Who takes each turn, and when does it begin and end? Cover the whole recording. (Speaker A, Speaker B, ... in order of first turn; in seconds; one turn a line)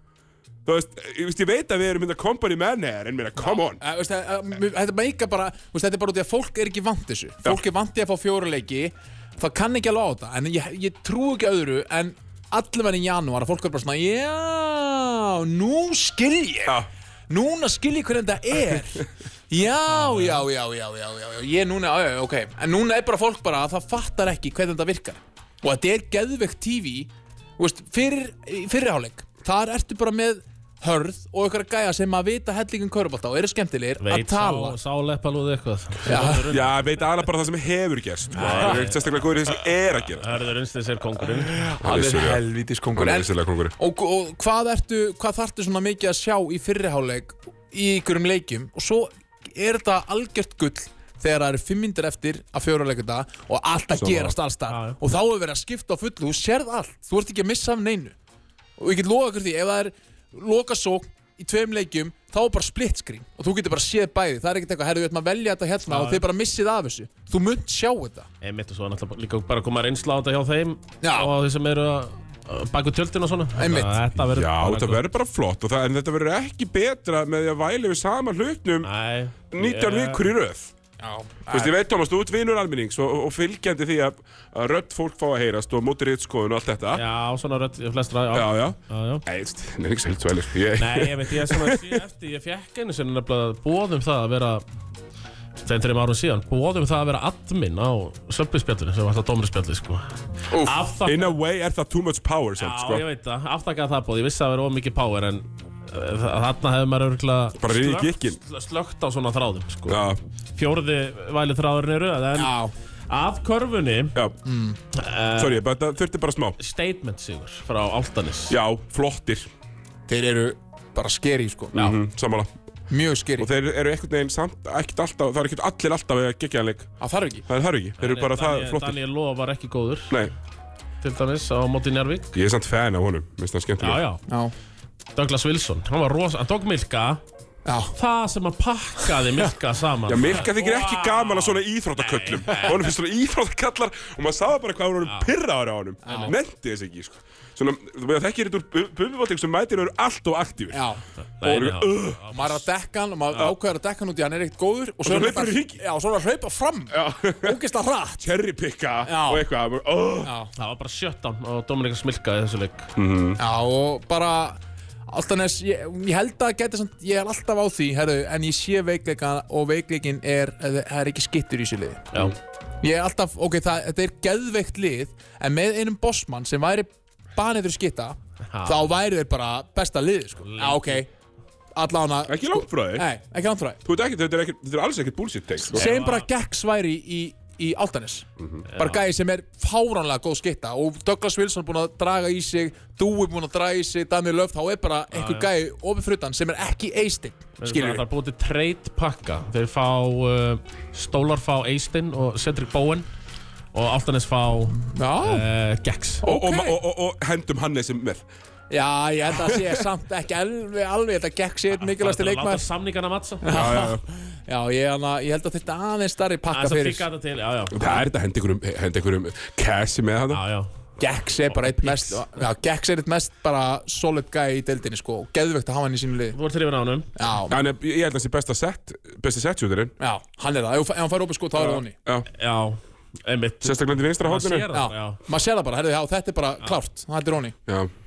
Speaker A: 0.7-3.8
Speaker B: 3.4-34.8
Speaker C: 19.9-20.4
Speaker C: 34.0-37.0
Speaker B: 36.0-36.5
Speaker A: 36.5-40.3
Speaker C: 38.3-39.0
Speaker B: 38.4-38.9
Speaker C: 40.2-41.6
Speaker B: 41.5-58.1
Speaker A: 41.8-42.4
Speaker A: 43.0-43.7
Speaker A: 54.0-54.4
Speaker C: 54.7-55.0
Speaker B: 58.8-68.3
Speaker C: 65.9-66.2
Speaker C: 68.4-75.0
Speaker B: 71.0-71.3
Speaker B: 73.6-74.0
Speaker A: 74.2-78.9
Speaker C: 78.8-80.3
Speaker A: 79.5-80.7
Speaker B: 81.0-81.7
Speaker A: 81.5-87.0
Speaker C: 86.9-89.2
Speaker A: 88.3-92.0
Speaker C: 90.8-94.6
Speaker C: 95.6-101.3
Speaker A: 100.5-103.0
Speaker C: 102.6-110.0
Speaker A: 107.6-108.4
Speaker A: 109.9-110.2
Speaker C: 110.5-112.5
Speaker B: 112.3-112.7
Speaker C: 113.1-114.2
Speaker B: 114.5-114.8
Speaker C: 114.9-115.6
Speaker A: 115.4-116.6
Speaker C: 116.6-118.6
Speaker A: 118.5-119.5
Speaker B: 120.1-121.8
Speaker A: 121.7-122.5
Speaker B: 122.9-123.5
Speaker A: 123.4-126.9
Speaker B: 127.0-127.5
Speaker A: 127.5-129.0
Speaker C: 128.0-130.2
Speaker C: 131.0-132.3
Speaker A: 132.3-134.0
Speaker C: 133.8-134.2
Speaker B: 134.3-134.5
Speaker C: 135.2-137.2
Speaker B: 137.7-137.9
Speaker C: 137.9-142.9
Speaker A: 140.1-150.8
Speaker C: 145.1-145.3
Speaker B: 146.1-146.3
Speaker C: 146.1-146.3
Speaker B: 150.7-151.0
Speaker C: 151.2-152.6
Speaker A: 151.4-152.2
Speaker B: 152.3-158.2
Speaker A: 155.0-155.8
Speaker A: 156.9-157.6
Speaker A: 158.2-160.3
Speaker B: 159.0-159.4
Speaker B: 160.2-160.5
Speaker C: 160.6-162.9
Speaker A: 163.0-163.4
Speaker B: 163.4-172.1
Speaker B: 172.8-181.1
Speaker C: 178.5-178.9
Speaker C: 180.4-181.0
Speaker B: 181.8-183.8
Speaker A: 182.3-183.1
Speaker A: 183.8-185.9
Speaker B: 185.7-198.0
Speaker C: 185.7-186.3
Speaker A: 188.4-188.7
Speaker C: 188.7-189.0
Speaker C: 195.1-195.5
Speaker C: 197.6-203.1
Speaker C: 203.7-206.2
Speaker B: 204.8-205.4
Speaker B: 206.2-206.8
Speaker A: 206.2-208.2
Speaker B: 208.7-212.7
Speaker A: 209.5-209.8
Speaker C: 211.8-213.5
Speaker B: 213.4-217.1
Speaker A: 213.5-214.1
Speaker C: 216.5-217.9
Speaker A: 217.7-220.4
Speaker C: 220.3-220.7
Speaker B: 221.0-226.4
Speaker C: 221.5-222.2
Speaker C: 226.3-227.1
Speaker B: 227.2-227.6
Speaker A: 227.5-229.9
Speaker B: 230.0-231.9
Speaker A: 231.6-232.3
Speaker C: 232.3-235.2
Speaker A: 233.6-234.7
Speaker B: 234.7-237.6
Speaker A: 237.7-237.9